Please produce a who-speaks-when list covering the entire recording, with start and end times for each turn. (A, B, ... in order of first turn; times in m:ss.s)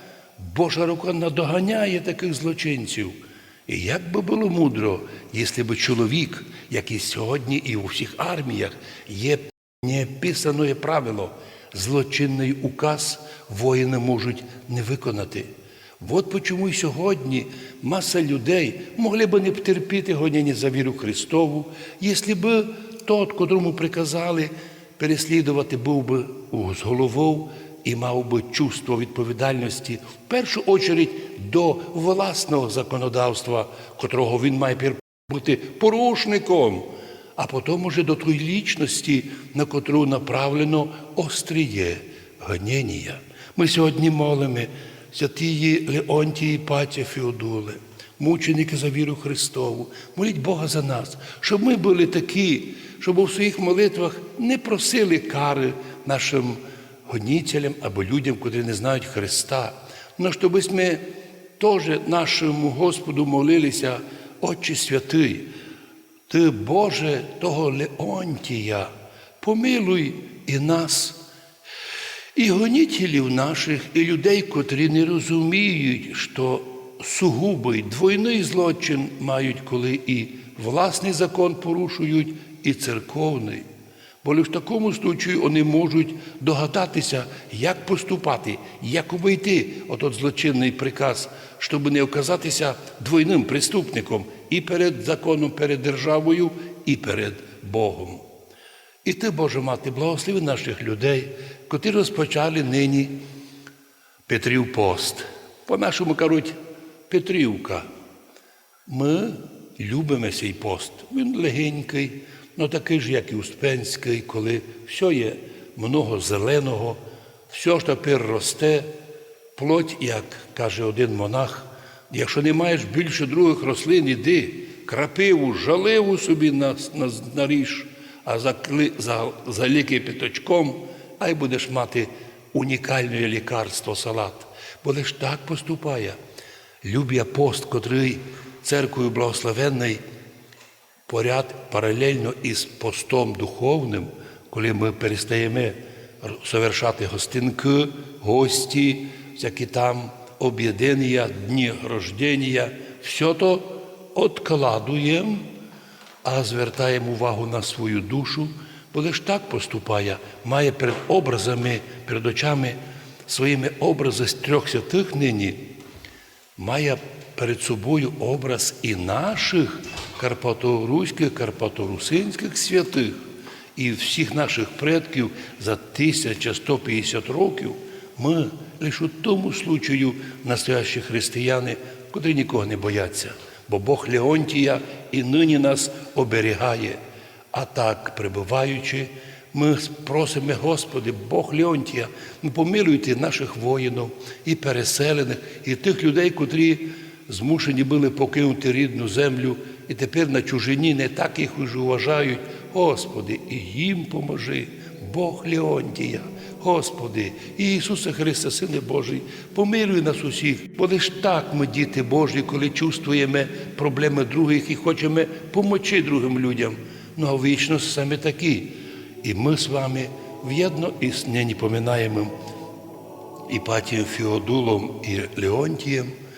0:00.4-1:01.0 A
1:01.6-1:05.5 A
1:06.3-1:11.2 A
1:12.4-1:23.6 A
1:24.2-1:38.2 A
1:39.0-1:43.2 A
1:44.3-1:46.6 A
1:47.1-1:47.9 A
1:48.8-1:57.0 A
1:57.5-1:58.9 A
1:59.6-2:16.2 A
2:16.8-2:20.0 A
2:21.1-2:35.4 A
2:36.2-2:45.6 A
2:46.6-2:53.2 A
2:53.7-3:07.0 A
3:07.5-3:42.3 A
3:43.5-3:46.1 A